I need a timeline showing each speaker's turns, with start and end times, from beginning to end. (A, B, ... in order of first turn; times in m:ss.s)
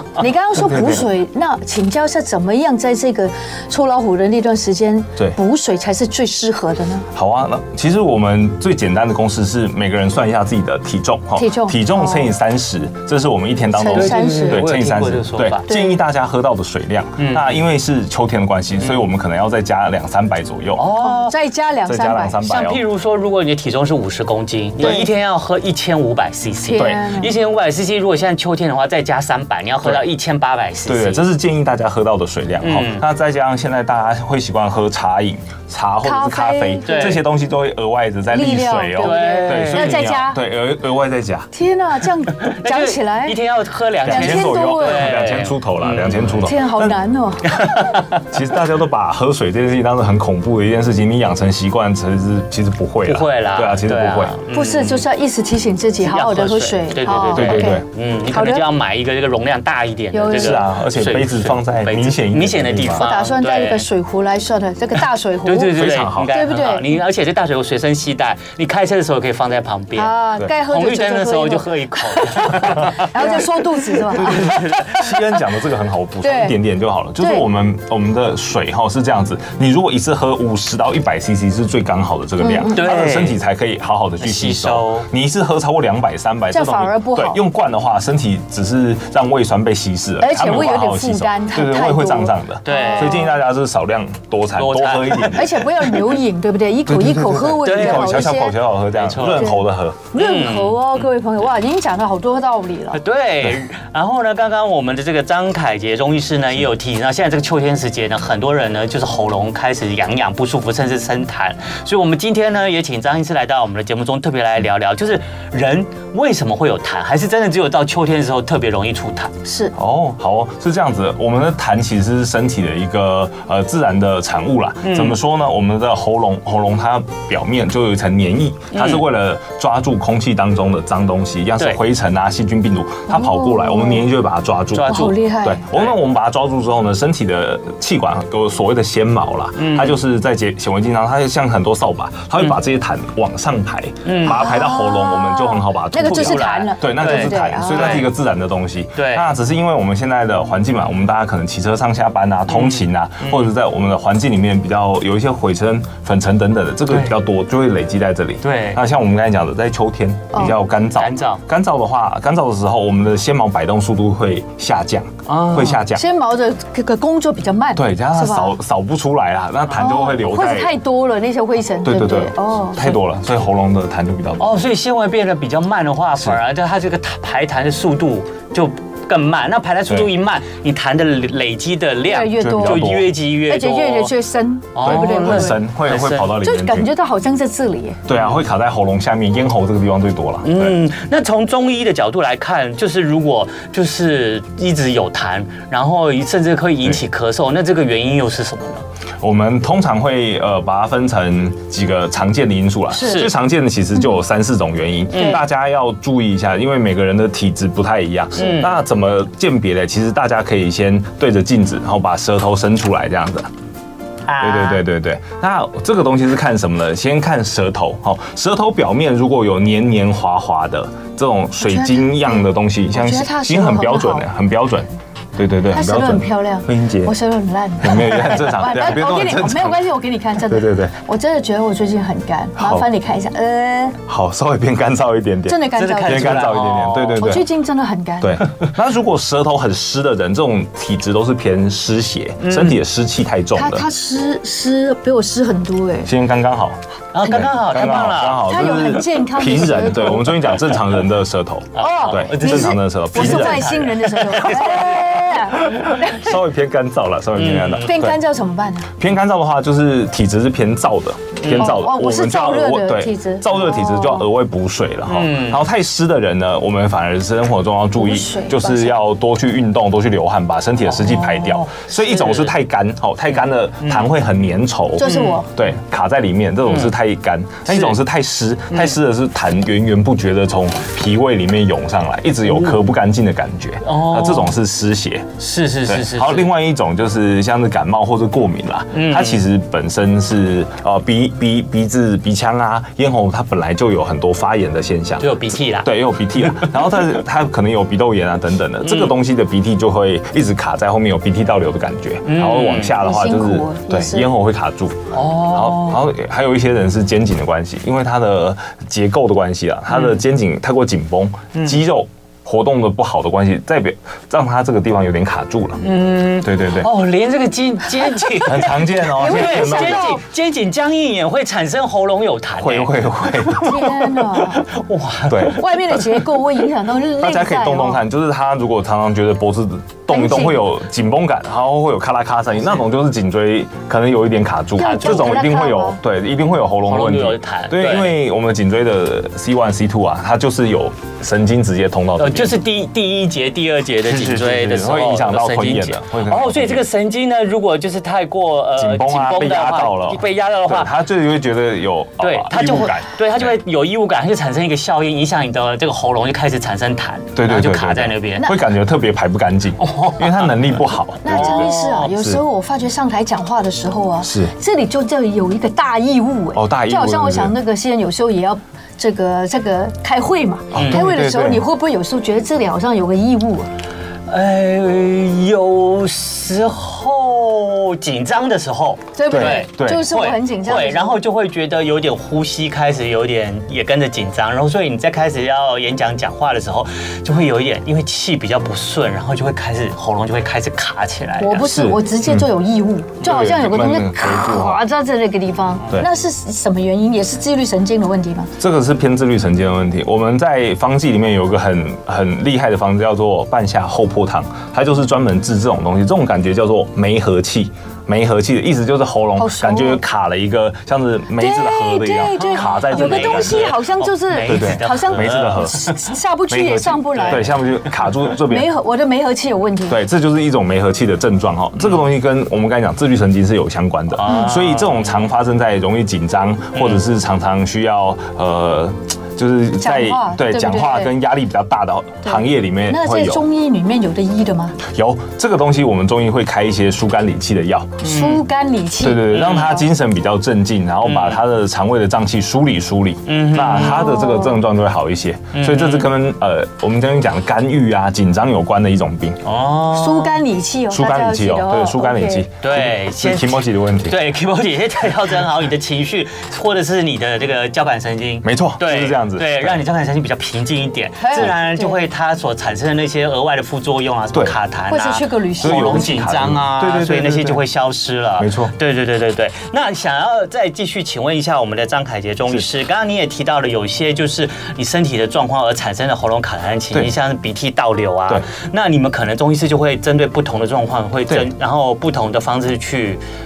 0:00.2-0:07.1 A
0:00.6-0:01.0 B
0:07.2-0:20.9 B
0:11.4-0:12.3 A
0:13.7-0:14.7 A
0:13.9-0:15.7 C
0:15.7-0:16.0 A
0:17.2-0:17.6 C
0:20.8-0:21.4 C
0:21.0-0:22.4 A
0:21.9-0:22.8 B
0:22.4-0:31.3 C
0:26.6-0:27.4 A
0:26.8-0:27.0 B
0:30.9-0:41.5 B
0:32.6-0:33.0 C
0:36.0-0:37.2 A
0:36.9-0:37.2 C
0:38.3-0:40.4 A
0:39.0-0:40.1 C
0:41.5-0:43.4 A
0:42.4-0:46.5 C
0:44.0-0:47.0 B
0:44.1-0:45.1 A
0:46.4-0:47.6 A
0:47.5-0:48.2 C
0:48.3-0:54.4 B
0:53.0-0:55.0 C
0:54.5-0:58.6 A
0:56.0-1:03.9 C
0:57.3-0:57.8 B
1:00.1-1:00.6 A
1:00.3-1:03.1 B
1:03.0-1:06.9 A
1:05.4-1:10.1 C
1:05.7-1:06.3 B
1:10.0-1:14.6 A
1:10.6-1:15.1 C
1:12.6-1:12.9 B
1:14.1-1:35.7 B
1:16.2-1:16.6 A
1:17.2-1:17.4 A
1:22.4-1:22.8 A
1:22.7-1:23.4 C
1:24.2-1:25.1 C
1:26.5-1:27.4 A
1:30.2-1:33.4 A
1:32.6-1:33.3 C
1:34.6-1:35.4 C
1:35.3-1:38.6 A
1:36.9-1:40.1 B
1:37.6-1:38.2 C
1:38.9-1:39.6 C
1:39.2-1:39.6 A
1:40.1-1:43.0 A
1:40.2-1:41.0 C
1:42.9-1:59.3 C
1:59.4-1:59.7 A
1:59.7-2:46.0 B
2:04.8-2:05.2 C
2:08.7-2:09.0 C
2:13.1-2:14.1 A
2:14.7-2:15.2 C
2:14.9-2:15.6 A
2:19.6-2:20.0 C
2:24.0-2:24.4 C
2:24.2-2:28.1 A
2:26.0-2:28.1 C
2:29.0-2:29.3 C
2:32.5-2:33.5 C
2:36.9-2:37.2 C
2:38.4-2:38.8 C
2:41.0-2:41.4 C
2:45.3-2:45.8 C
2:45.9-2:48.6 A
2:47.8-2:50.7 B
2:49.8-2:53.0 A
2:51.8-2:54.6 B
2:54.4-3:04.1 C
3:02.0-3:05.6 A
3:02.4-3:03.1 B
3:04.8-3:06.4 C
3:04.8-3:06.9 B
3:06.4-3:08.0 A
3:08.1-3:10.8 B
3:08.1-3:08.4 C
3:10.4-3:18.8 C
3:19.2-3:33.5 B
3:23.0-3:23.3 C
3:25.1-3:25.4 C
3:28.4-3:28.7 C
3:34.3-3:34.8 C
3:34.4-3:47.2 B
3:41.6-3:42.4 A
3:42.9-3:44.2 A
3:45.7-3:54.0 A
3:47.8-3:49.9 B
3:50.4-3:51.0 B
3:52.6-3:52.9 B
3:54.1-3:57.5 B
3:55.5-3:56.6 A
3:55.7-3:57.2 C
3:57.2-3:58.4 A
3:58.2-4:03.9 B
4:02.4-4:02.8 C
4:03.6-4:06.1 A
4:06.0-4:13.9 B
4:07.1-4:08.7 C
4:08.5-4:10.7 A
4:11.8-4:15.7 C
4:11.8-4:16.3 A
4:15.6-4:18.2 B
4:17.4-4:18.0 C
4:17.8-4:18.9 A
4:19.0-5:15.8 B
4:21.4-4:21.7 C
4:21.6-4:24.3 A
4:25.1-4:25.6 C
4:28.0-4:29.0 A
4:30.9-4:32.6 C
4:33.8-4:34.1 C
4:35.0-4:35.5 A
4:35.0-4:35.4 C
4:36.7-4:36.9 C
4:37.7-4:38.0 C
4:43.8-4:44.6 C
4:45.4-4:46.5 C
4:48.9-4:49.4 C
4:55.2-4:55.9 C
4:58.8-4:59.1 C
5:02.2-5:03.0 C
5:02.9-5:04.3 A
5:05.1-5:06.1 C
5:11.5-5:11.8 C
5:15.8-5:26.0 C
5:16.4-5:16.9 B
5:18.4-5:20.2 B
5:19.2-5:20.2 A
5:22.6-5:24.2 B
5:23.6-5:24.7 A
5:25.3-5:25.6 B
5:25.6-5:28.0 A
5:27.2-5:42.6 B
5:30.1-5:30.7 A
5:34.8-5:36.0 A
5:34.8-5:35.2 C
5:36.9-5:38.2 C
5:42.2-5:51.0 C
5:44.0-5:46.9 B
5:48.8-5:53.6 B
5:52.2-5:58.5 C
5:57.4-6:02.4 B
5:59.8-6:02.1 C
6:01.2-6:13.7 A
6:04.2-6:04.5 B
6:06.5-6:07.6 B
6:10.7-6:11.6 B
6:10.8-6:11.0 C
6:14.3-6:31.7 C
6:19.2-6:21.2 A
6:19.3-6:20.1 B
6:31.4-6:38.5 A
6:31.6-6:32.5 B
6:33.2-6:34.8 B
6:38.6-6:53.7 B
6:49.4-6:50.0 A
6:51.4-6:57.6 A
6:52.4-6:56.0 C
6:54.4-6:55.9 B
6:56.5-6:58.7 B
6:57.1-6:57.6 C
6:58.4-7:00.0 A
6:59.9-7:13.4 B
7:04.1-7:05.2 C
7:04.3-7:04.5 A
7:06.7-7:07.0 C
7:09.8-7:11.1 A
7:12.2-7:14.8 A
7:14.8-7:18.0 B
7:18.0-7:18.4 C
7:18.0-7:19.6 A
7:19.0-7:29.4 B
7:19.3-7:19.9 C
7:21.0-7:21.4 C
7:23.3-7:24.2 C
7:23.7-7:24.6 A
7:25.5-7:26.1 C
7:29.4-7:30.4 C
7:29.9-7:32.5 A
7:30.9-7:34.2 B
7:32.6-8:03.2 C
7:38.4-7:39.8 B
7:41.2-7:42.0 A
7:44.9-7:46.1 A
7:45.6-7:47.6 B
7:48.4-7:48.7 B